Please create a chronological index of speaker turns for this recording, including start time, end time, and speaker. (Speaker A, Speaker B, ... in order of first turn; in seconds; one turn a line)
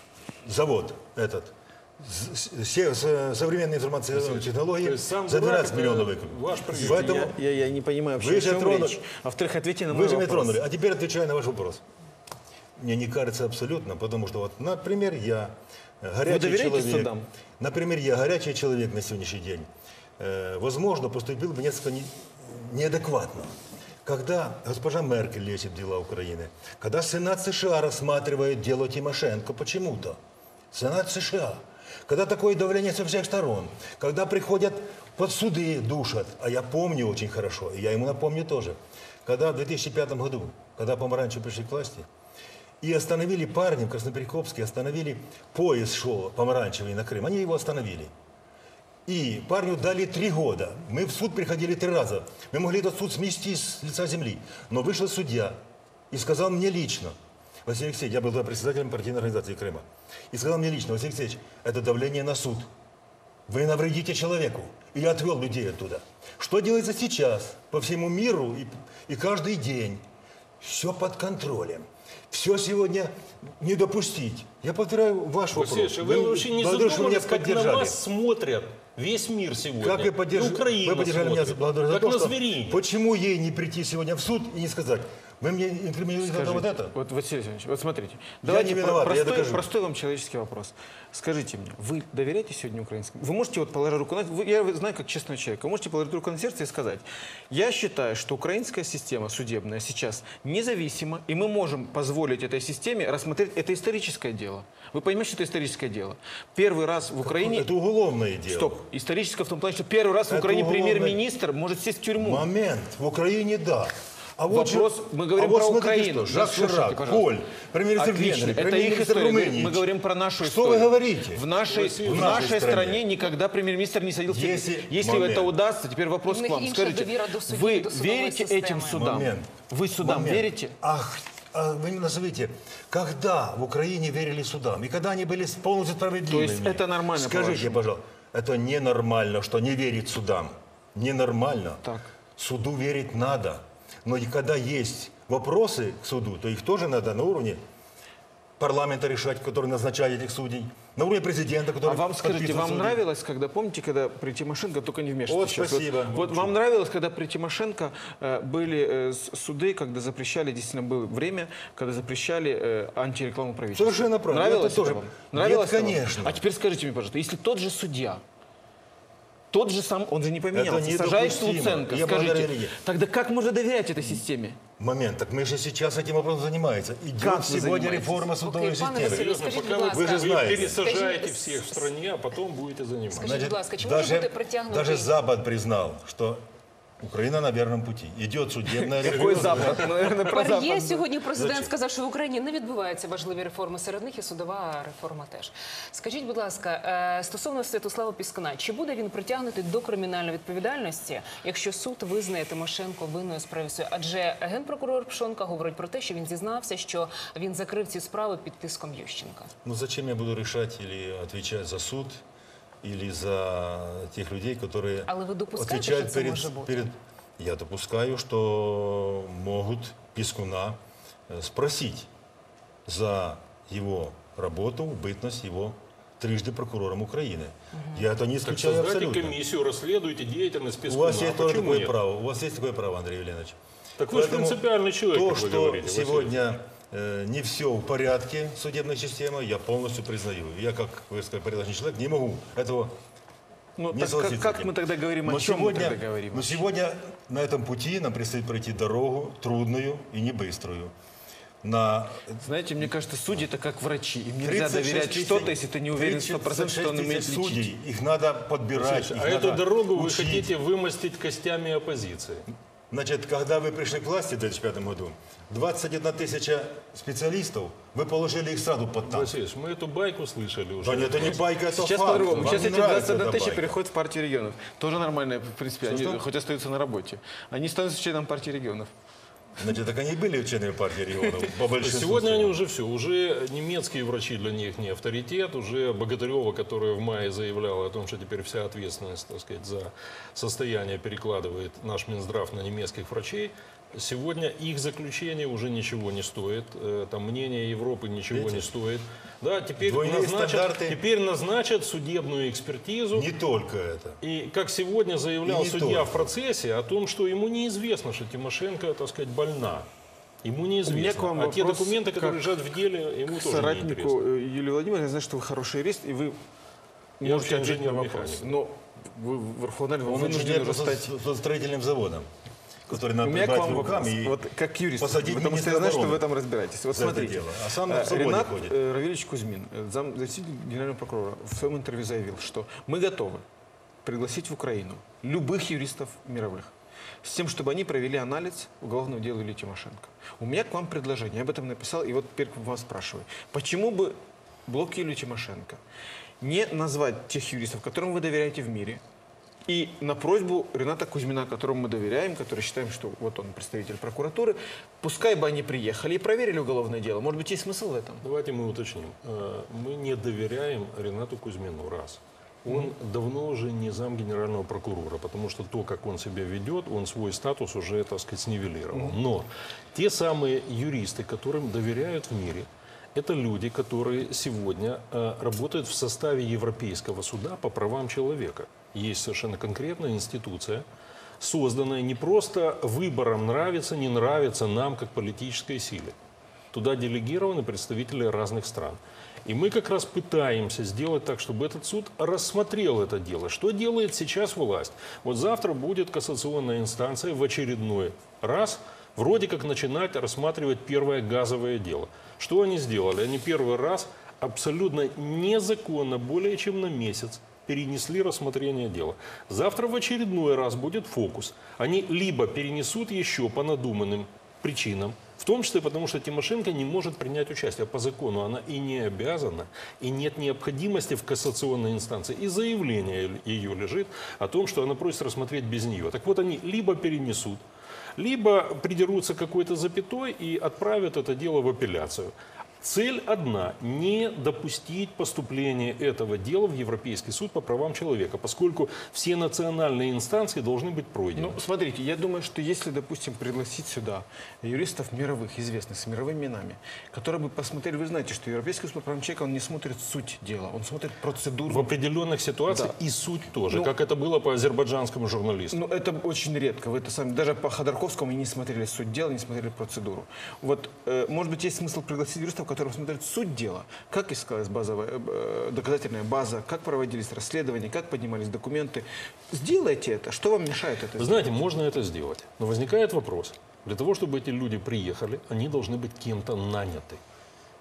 Speaker A: 0.4-7.4
Speaker B: 4.1-7.3
Speaker C: 6.6-10.6
Speaker A: 8.2-9.0
Speaker A: 9.9-11.8
Speaker A: 12.8-30.2
Speaker C: 16.2-17.3
Speaker A: 30.7-42.1
Speaker A: 42.8-48.1
Speaker A: 49.0-55.6
Speaker A: 56.1-62.7
Speaker A: 63.5-70.0
Speaker A: 70.6-78.0
Speaker B: 75.5-82.8
Speaker A: 79.8-86.9
Speaker C: 86.2-107.7
Speaker A: 88.4-89.7
Speaker A: 107.2-108.8
Speaker C: 108.5-112.5
Speaker A: 110.3-111.2
Speaker A: 112.2-119.8
Speaker C: 114.5-117.3
Speaker C: 118.0-130.7
Speaker A: 120.4-121.4
Speaker B: 121.6-122.6
Speaker A: 122.0-123.0
Speaker A: 124.3-125.5
Speaker D: 126.3-129.2
Speaker A: 128.8-141.8
Speaker C: 136.3-137.8
Speaker A: 142.4-147.6
Speaker A: 148.6-153.0
Speaker C: 151.8-168.2
Speaker A: 155.2-156.5
Speaker A: 163.7-166.4
Speaker C: 169.5-174.6
Speaker A: 170.5-172.8
Speaker A: 174.8-180.8
Speaker C: 177.2-178.3
Speaker D: 178.4-181.9
Speaker B: 178.9-183.4
Speaker D: 183.1-185.1
Speaker A: 183.2-186.4
Speaker A: 187.0-190.0
Speaker C: 188.8-191.0
Speaker D: 190.2-209.5
Speaker A: 191.3-191.7
Speaker A: 209.6-212.2
Speaker A: 212.8-222.1
Speaker D: 215.1-216.9
Speaker A: 222.8-229.4
Speaker B: 228.4-231.9
Speaker A: 230.9-233.6
Speaker B: 234.0-236.4
Speaker A: 234.1-242.9
Speaker C: 243.8-246.6
Speaker A: 243.9-250.9
Speaker A: 251.6-252.4
Speaker C: 252.4-257.7
Speaker A: 254.4-260.5
Speaker B: 258.7-262.5
Speaker A: 262.9-269.4
Speaker B: 269.0-271.4
Speaker A: 270.8-273.8
Speaker C: 271.6-278.9
Speaker B: 272.2-272.6
Speaker A: 275.8-276.2
Speaker A: 279.6-282.6
Speaker B: 281.8-303.3
Speaker A: 298.3-298.7
Speaker A: 299.8-301.0
Speaker A: 303.1-304.2
Speaker B: 304.2-309.9
Speaker A: 305.4-306.3
Speaker B: 310.4-314.2
Speaker C: 310.8-312.5
Speaker C: 313.3-316.4
Speaker C: 317.2-321.1
Speaker B: 317.2-318.6
Speaker A: 320.0-322.3
Speaker A: 322.9-324.4
Speaker C: 323.2-333.4
Speaker A: 325.0-326.2
Speaker A: 326.9-328.8
Speaker C: 334.0-345.8
Speaker C: 346.4-349.0
Speaker C: 349.7-358.2
Speaker B: 358.2-380.8
Speaker B: 381.4-386.1
Speaker B: 386.7-427.6
Speaker B: 428.2-441.6
Speaker C: 441.4-451.9
Speaker B: 451.7-455.8
Speaker C: 452.7-452.9
Speaker C: 455.7-471.5
Speaker B: 471.2-477.2